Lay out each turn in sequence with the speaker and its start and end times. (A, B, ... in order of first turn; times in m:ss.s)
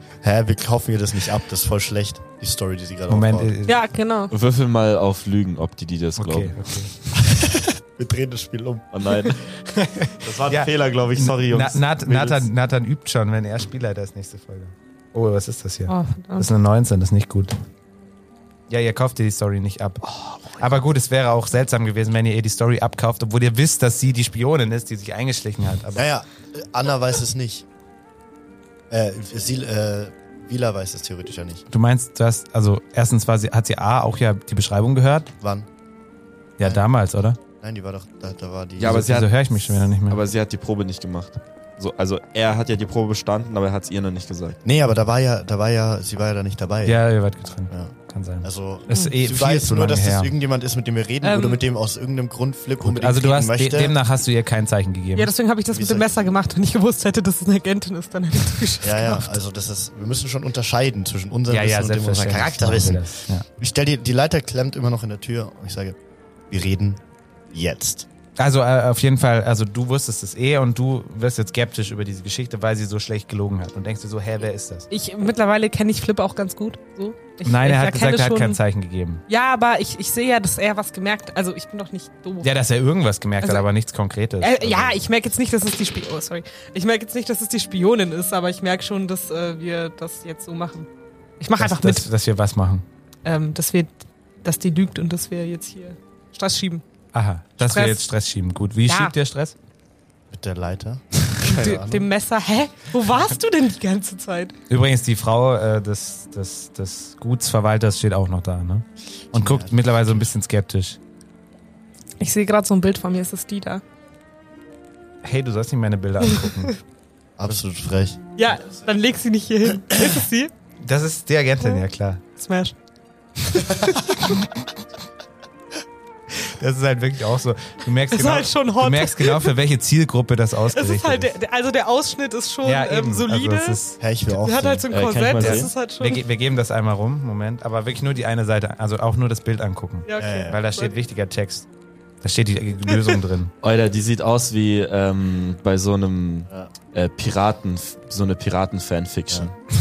0:00.2-0:03.5 A
0:03.1-0:03.8 B
0:03.7-0:04.3 C
0:04.3-0:06.6 D
0:06.2-0:06.9 B
0:07.2-0:08.9 A
0:08.9-0:09.5 D
0:09.6-0:17.5 B
0:10.2-0:12.5 D
0:15.9-0:16.5 C
0:18.7-0:20.0 B
0:20.5-0:26.1 B
0:25.9-0:27.6 A
0:28.9-0:31.6 A
0:31.7-0:35.3 B
0:35.4-0:35.7 A
0:36.6-0:37.4 B
0:36.6-0:36.9 A
0:37.6-0:39.1 A
0:38.8-0:44.6 D
0:38.8-0:40.2 B
0:44.6-0:47.0 A
0:46.8-0:50.3 B
0:47.7-0:54.0 A
0:51.2-0:51.6 C
0:52.8-0:55.3 B
0:55.1-0:59.3 C
0:55.7-0:56.4 A
0:58.8-1:06.0 A
1:01.5-1:03.4 B
1:06.5-1:07.0 A
1:07.5-1:08.1 A
1:08.4-1:14.9 B
1:14.9-1:18.6 C
1:17.4-1:19.2 B
1:19.3-1:22.5 C
1:22.4-1:25.0 B
1:24.4-1:30.9 C
1:31.4-1:32.1 C
1:31.6-1:32.8 B
1:33.2-1:36.8 C
1:37.1-1:39.5 B
1:37.6-1:38.1 C
1:38.9-1:39.1 C
1:40.3-1:42.1 A
1:41.4-1:41.9 D
1:41.4-1:44.5 C
1:44.7-1:51.0 B
1:49.3-1:50.3 A
1:52.2-1:53.8 C
1:55.2-1:56.8 B
1:57.4-1:58.2 A
1:58.4-2:00.5 C
2:00.8-2:02.2 B
2:02.4-2:02.7 C
2:03.4-2:04.2 C
2:06.4-2:11.3 B
2:08.1-2:09.5 C
2:10.7-2:16.2 C
2:12.6-2:14.0 B
2:14.0-2:15.5 A
2:14.9-2:15.7 D
2:15.4-2:21.7 B
2:20.1-2:21.0 C
2:20.2-2:20.6 A
2:22.2-2:23.5 B
2:23.6-2:29.5 D